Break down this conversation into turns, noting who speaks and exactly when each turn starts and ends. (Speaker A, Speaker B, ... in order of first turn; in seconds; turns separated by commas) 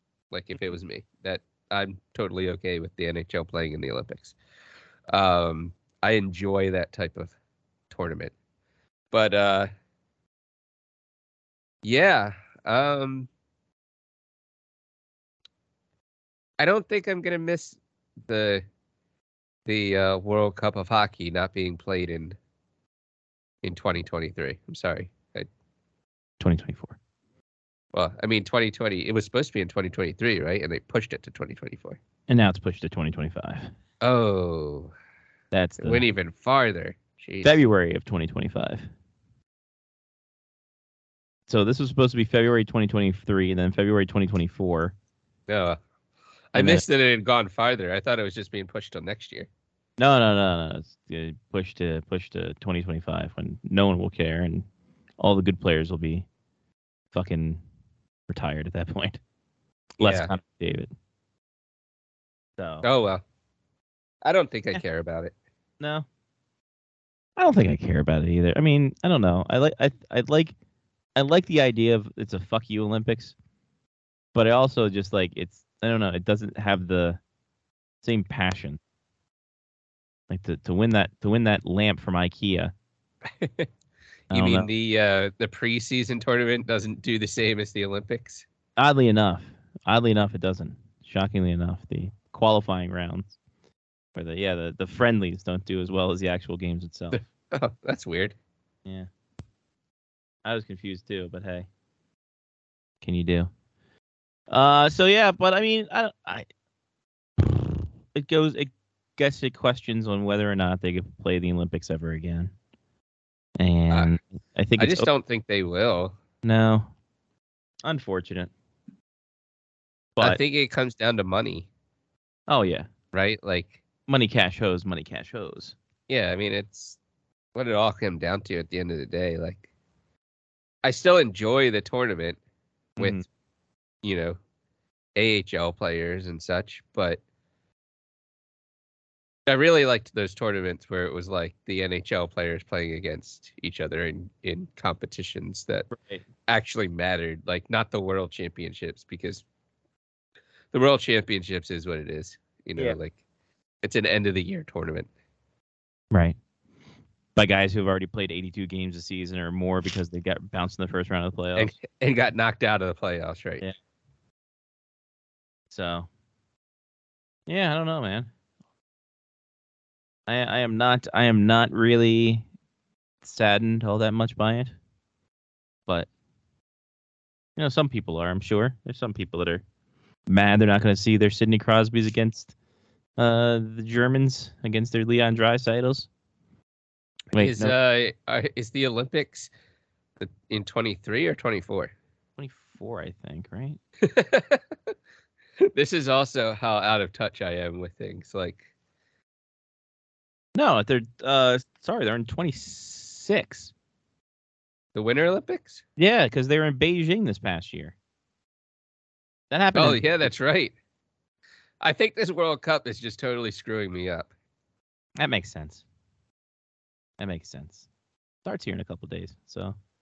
Speaker A: 0.3-4.3, Speaker A: 5.1-7.3, Speaker A: 7.9-8.3, Speaker A: 9.1-9.7, Speaker A: 11.8-13.3, Speaker A: 16.6-18.6, Speaker A: 19.7-22.4, Speaker A: 23.6-25.5, Speaker B: 26.4-27.0, Speaker A: 27.9-32.0, Speaker B: 32.3-33.7, Speaker A: 34.0-34.9, Speaker B: 35.5-36.0, Speaker A: 35.8-37.6, Speaker B: 37.4-38.9, Speaker B: 41.5-44.9, Speaker A: 45.5-45.8, Speaker A: 46.5-49.5, Speaker B: 46.5-46.9, Speaker B: 50.0-54.7, Speaker B: 55.2-56.3, Speaker B: 57.1-57.6, Speaker B: 58.3-59.2, Speaker B: 60.0-60.9, Speaker A: 60.0-60.3, Speaker B: 62.6-62.9, Speaker A: 62.8-63.2, Speaker A: 64.2-65.3, Speaker B: 65.8-66.1, Speaker B: 67.4-70.5, Speaker B: 71.2-73.3, Speaker B: 74.3-77.2, Speaker B: 78.0-78.8, Speaker B: 80.3-82.7, Speaker A: 83.4-83.7, Speaker A: 84.3-88.5, Speaker B: 84.3-84.7, Speaker B: 88.8-93.3, Speaker B: 94.2-97.2, Speaker A: 97.1-98.3, Speaker B: 100.5-101.7, Speaker B: 103.0-103.5, Speaker B: 104.5-106.5, Speaker B: 107.4-112.5, Speaker B: 113.6-115.1, Speaker A: 114.8-116.2, Speaker B: 116.4-116.9, Speaker B: 117.8-118.5, Speaker A: 120.2-121.7, Speaker B: 122.5-122.9, Speaker A: 123.1-123.8, Speaker B: 124.1-125.8, Speaker A: 126.1-127.0, Speaker A: 127.5-129.6, Speaker A: 130.8-132.4, Speaker B: 133.0-133.2, Speaker A: 134.0-134.4, Speaker A: 135.2-137.2, Speaker A: 139.5-145.9, Speaker B: 145.9-146.2, Speaker A: 146.5-149.4, Speaker A: 150.7-153.2, Speaker A: 153.8-155.1, Speaker B: 157.4-161.7, Speaker A: 161.6-163.7, Speaker B: 165.7-166.1, Speaker B: 167.5-168.3, Speaker B: 170.3-172.4, Speaker B: 173.2-174.7, Speaker B: 177.6-179.6, Speaker B: 180.3-182.5, Speaker B: 183.2-186.1, Speaker B: 187.3-187.8, Speaker A: 187.3-189.5, Speaker A: 190.2-191.9, Speaker B: 192.4-193.8, Speaker A: 194.0-194.6, Speaker A: 195.6-198.7, Speaker B: 200.6-203.7, Speaker A: 204.9-205.8, Speaker B: 206.0-207.9, Speaker B: 209.5-210.3, Speaker A: 209.8-210.7, Speaker A: 211.8-214.3, Speaker B: 215.2-215.8, Speaker B: 217.2-217.9, Speaker B: 218.4-219.8